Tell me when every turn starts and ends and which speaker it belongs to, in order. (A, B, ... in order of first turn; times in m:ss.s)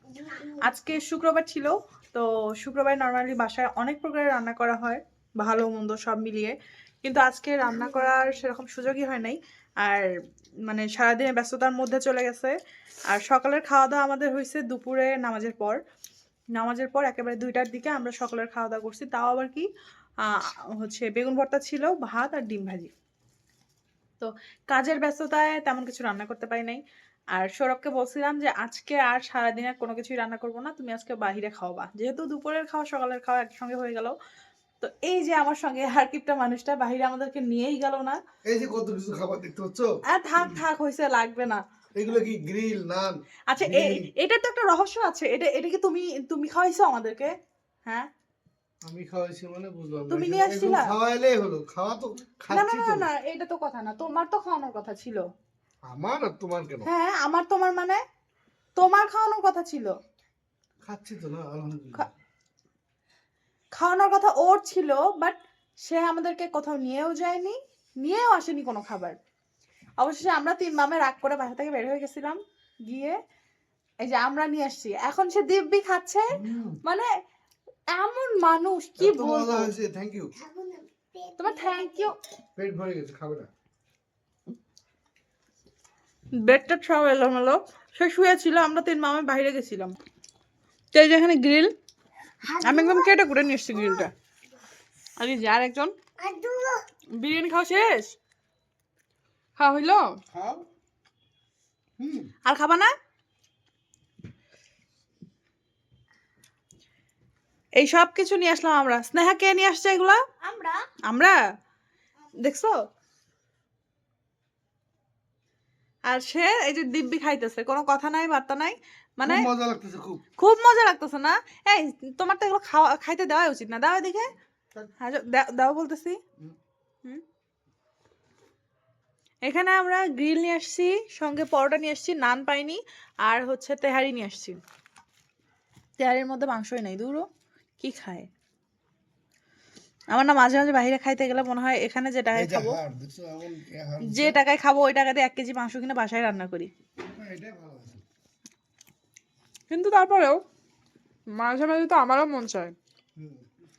0:00.4-0:10.1 A
0:10.7-0:12.5 A
0:13.1-0:15.8 A
0:16.5-0:19.7 A
0:20.2-0:22.9 A
0:24.2-0:34.1 A
0:34.8-0:38.2 A
0:38.4-0:40.6 B
0:40.1-0:41.6 A
0:42.0-0:44.1 B
0:43.5-0:47.3 A
0:48.8-0:53.1 B
0:50.1-0:50.9 A
0:52.5-0:55.3 A
0:55.8-0:56.9 B
0:56.8-0:58.0 A
0:58.8-0:59.9 A
1:00.8-1:02.1 B
1:03.8-1:09.2 A
1:10.0-1:13.2 A
1:14.0-1:16.2 A
1:16.3-1:16.8 B
1:16.8-1:17.1 A
1:17.9-1:19.7 A
1:19.0-1:20.3 B
1:20.4-1:22.1 C
1:21.4-1:22.1 A
1:22.6-1:23.5 B
1:26.4-1:29.9 A
1:30.9-1:31.7 A
1:32.5-1:33.0 C
1:32.6-1:34.1 A
1:35.2-1:35.9 A
1:36.2-1:36.8 C
1:37.2-1:38.1 A
1:39.6-1:40.1 A
1:40.3-1:40.6 B
1:42.0-1:42.3 B
1:42.4-1:42.9 A
1:47.8-1:50.3 A
1:50.4-1:50.8 C
1:51.1-1:51.4 A
1:52.4-1:52.8 A
1:56.1-1:59.5 A
1:59.2-2:00.2 B
2:00.4-2:04.3 A
2:05.0-2:06.2 A
2:09.4-2:14.6 A
2:16.0-2:17.3 A
2:17.8-2:18.3 A
2:20.1-2:22.8 A
2:22.3-2:24.4 B
2:24.0-2:26.7 A
2:27.1-2:28.0 B
2:29.7-2:30.4 A
2:31.3-2:32.7 A
2:33.2-2:33.4 B